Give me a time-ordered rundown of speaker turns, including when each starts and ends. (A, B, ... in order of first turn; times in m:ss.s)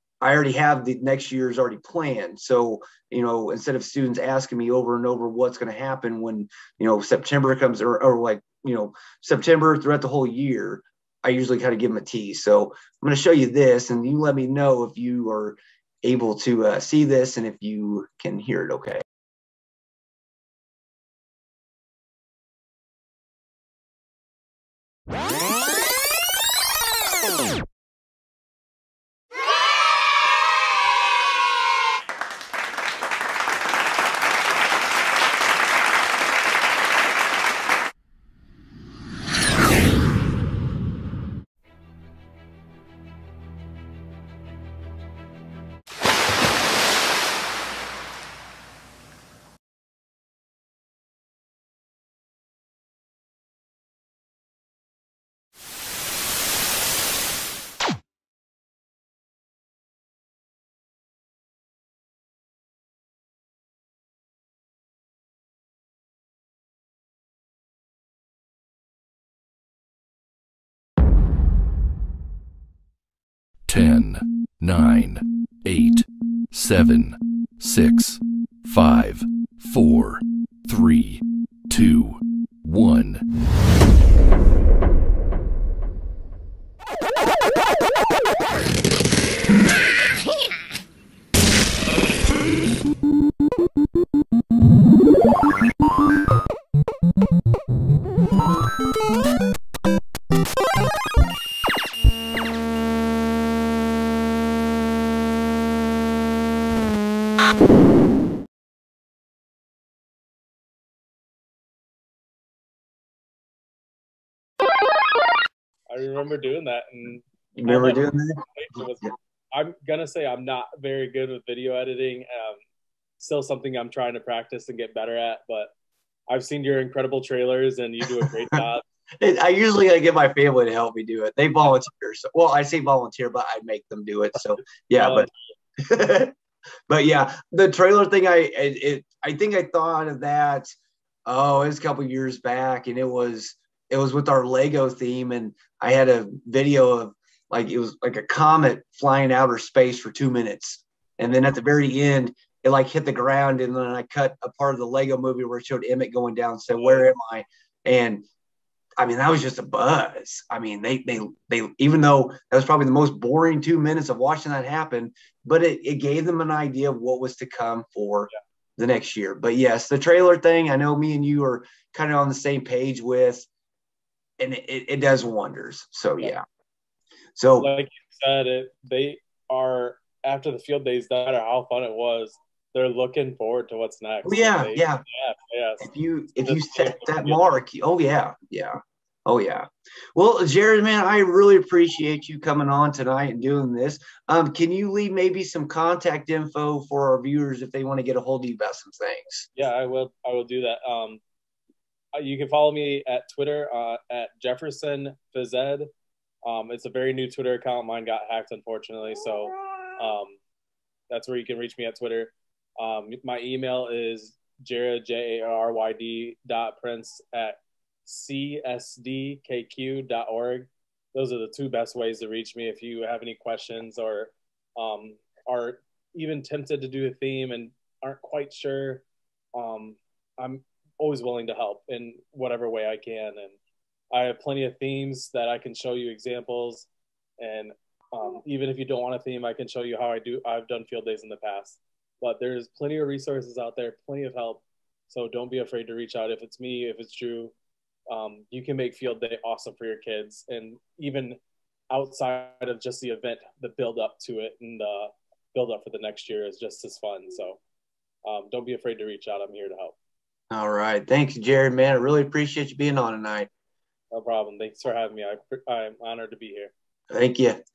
0:00.2-0:19.0 A
1:13.7-1:23.2 B
1:55.9-2:02.6 C
1:57.6-1:58.4 A
2:03.2-2:05.7 C
2:06.3-2:08.8 C
2:08.2-2:08.6 A
2:09.2-2:15.3 A
2:14.9-2:15.5 C
2:15.8-2:16.3 A
2:16.9-2:20.7 A
2:21.2-2:38.2 A
2:36.7-2:37.1 C
2:39.0-2:53.5 A
2:54.4-2:56.4 A
2:57.4-2:57.7 A
2:57.6-3:07.6 C
3:04.2-3:05.0 A
3:05.8-3:19.5 A
3:19.5-3:21.2 C
3:22.2-3:25.9 C
3:26.4-3:30.4 C
3:31.1-3:53.6 C
3:54.1-3:56.9 C
3:57.4-4:07.5 C
4:08.1-4:11.4 C
4:11.9-4:17.6 C
4:18.2-4:20.0 C
4:20.5-4:23.5 A
4:24.1-4:26.7 C
4:27.1-4:27.6 A